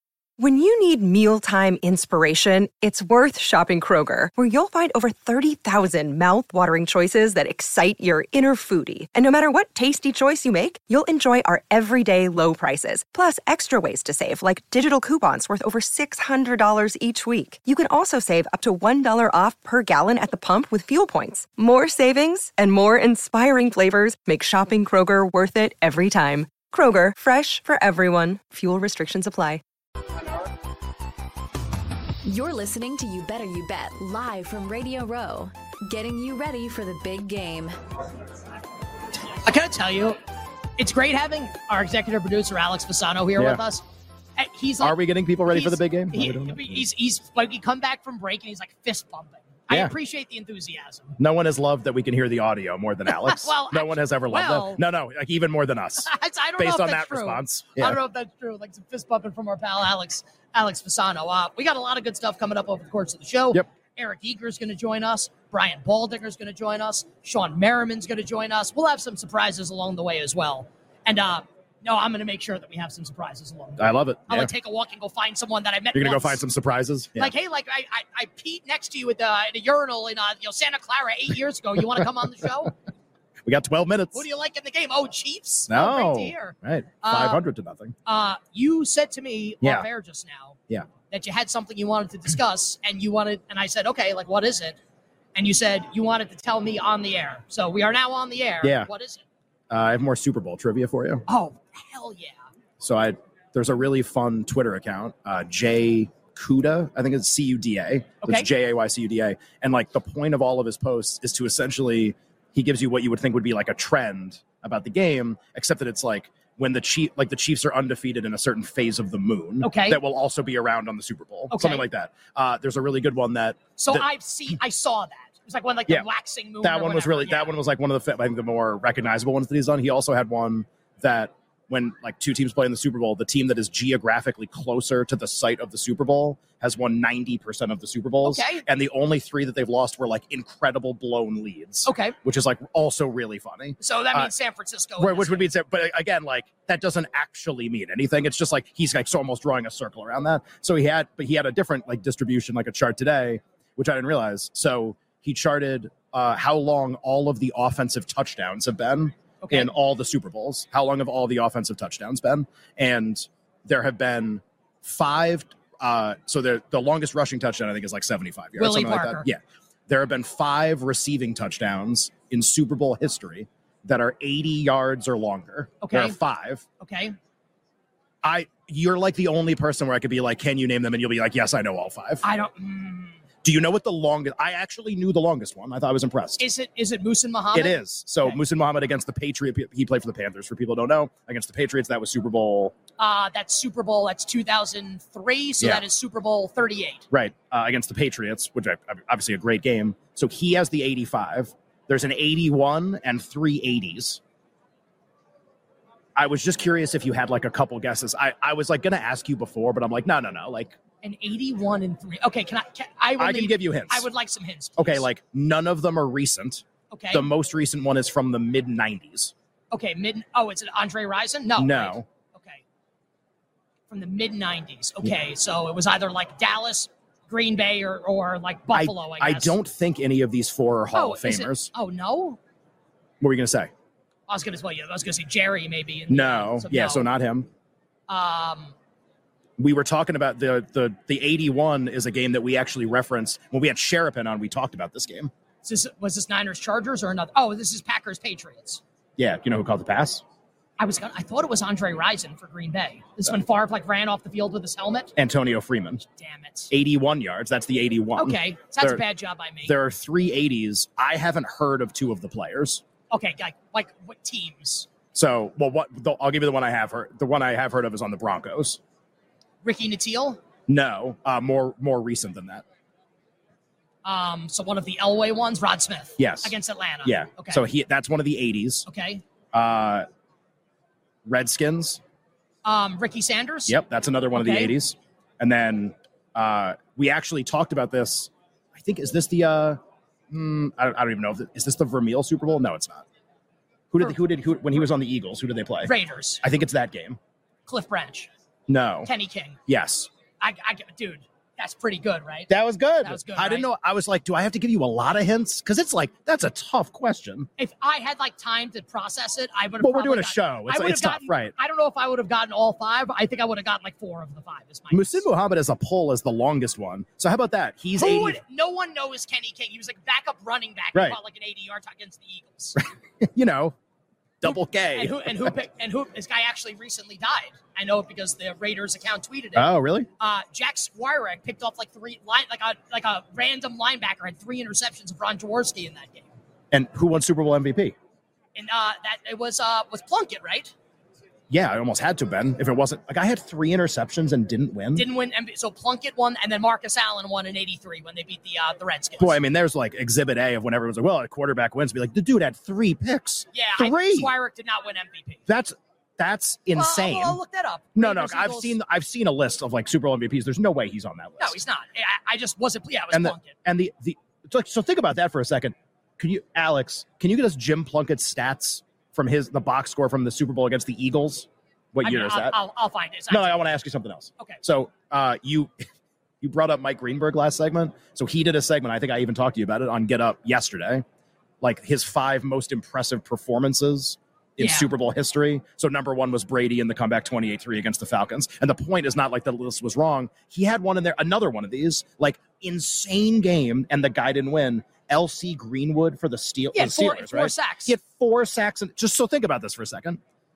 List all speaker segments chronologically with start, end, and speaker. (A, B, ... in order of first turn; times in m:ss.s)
0:00.4-0:29.6 A
0:32.2-0:37.7 B
0:39.4-0:40.2 C
0:40.8-0:43.8 C
0:43.4-0:43.6 D
0:44.4-0:51.2 C
0:44.8-0:46.9 D
0:49.7-0:50.0 D
0:51.2-0:58.0 D
0:53.1-0:54.8 C
0:56.0-1:16.4 C
1:13.8-1:14.5 D
1:15.9-1:17.3 D
1:17.2-1:22.8 C
1:23.4-1:24.2 D
1:24.1-1:27.4 C
1:25.7-1:27.9 D
1:28.1-1:30.6 C
1:29.6-1:29.9 D
1:31.1-1:34.8 C
1:35.3-1:39.2 C
1:38.6-1:38.9 D
1:39.7-1:41.2 D
1:41.3-1:42.4 C
1:42.8-2:04.1 D
1:48.2-1:48.5 C
1:59.6-2:00.0 C
2:01.5-2:01.8 C
2:03.8-2:07.5 C
2:06.6-2:24.3 D
2:18.2-2:18.6 C
2:21.8-2:22.1 C
2:23.8-2:25.5 C
2:25.0-2:56.6 D
2:39.4-2:39.7 C
2:48.6-2:49.2 C
2:55.8-2:56.2 C
2:56.8-2:57.2 C
2:58.2-3:02.2 D
3:02.2-3:03.2 C
3:03.4-3:06.4 D
3:06.4-3:08.4 C
3:07.5-3:12.8 D
3:13.0-3:17.0 C
3:17.1-3:24.2 D
3:26.2-3:30.8 D
3:31.0-3:35.1 C
3:33.2-3:34.1 D
3:34.8-3:39.3 D
3:36.9-3:37.3 C
3:39.7-3:42.6 C
3:41.6-3:42.1 D
3:43.9-3:49.6 C
3:48.7-3:51.7 D
3:50.9-3:52.4 C
3:53.2-3:53.7 D
3:54.3-3:57.1 C
3:56.1-3:57.5 D
3:58.1-3:58.7 C
3:59.6-4:05.3 D
4:05.6-4:08.8 C
4:09.2-4:10.2 D
4:10.8-4:15.1 C
4:15.2-4:16.1 D
4:16.2-4:16.7 C
4:16.7-4:19.0 D
4:18.2-4:19.8 C
4:19.6-4:22.8 D
4:23.1-4:24.9 C
4:25.1-4:28.8 D
4:29.6-4:30.4 C
4:30.7-4:32.6 D
4:34.0-4:37.6 C
4:36.2-4:38.9 D
4:38.9-4:39.2 C
4:39.5-4:40.1 D
4:41.2-4:42.0 D
4:42.6-4:43.8 C
4:43.7-4:49.8 D
4:44.3-4:44.8 C
4:50.3-4:53.1 D
4:53.9-4:57.2 D
4:55.8-4:56.4 C
4:57.7-4:58.3 C
4:58.7-4:59.1 D
4:59.0-4:59.6 C
4:59.7-5:00.1 D
5:00.4-5:02.5 C
5:02.5-5:07.5 D
5:03.0-5:03.7 C
5:07.6-5:15.2 C
5:09.8-5:11.5 D
5:14.9-5:18.4 D
5:18.0-5:22.8 C
5:22.8-5:23.8 D
5:24.4-5:25.4 D
5:24.4-5:36.3 C
5:29.6-5:30.1 D
5:36.7-5:37.9 D
5:38.6-5:40.7 C
5:41.5-5:45.1 D
5:44.9-5:49.4 C
5:49.2-5:54.3 D
5:53.5-5:55.4 C
5:55.5-5:57.4 D
5:56.7-5:58.8 C
5:57.9-6:01.6 D
6:01.4-6:03.5 C
6:03.1-6:12.6 D
6:12.0-6:13.7 C
6:13.3-6:15.8 D
6:16.4-6:21.0 D
6:21.6-6:40.2 D
6:24.6-6:24.9 C
6:36.7-6:37.9 C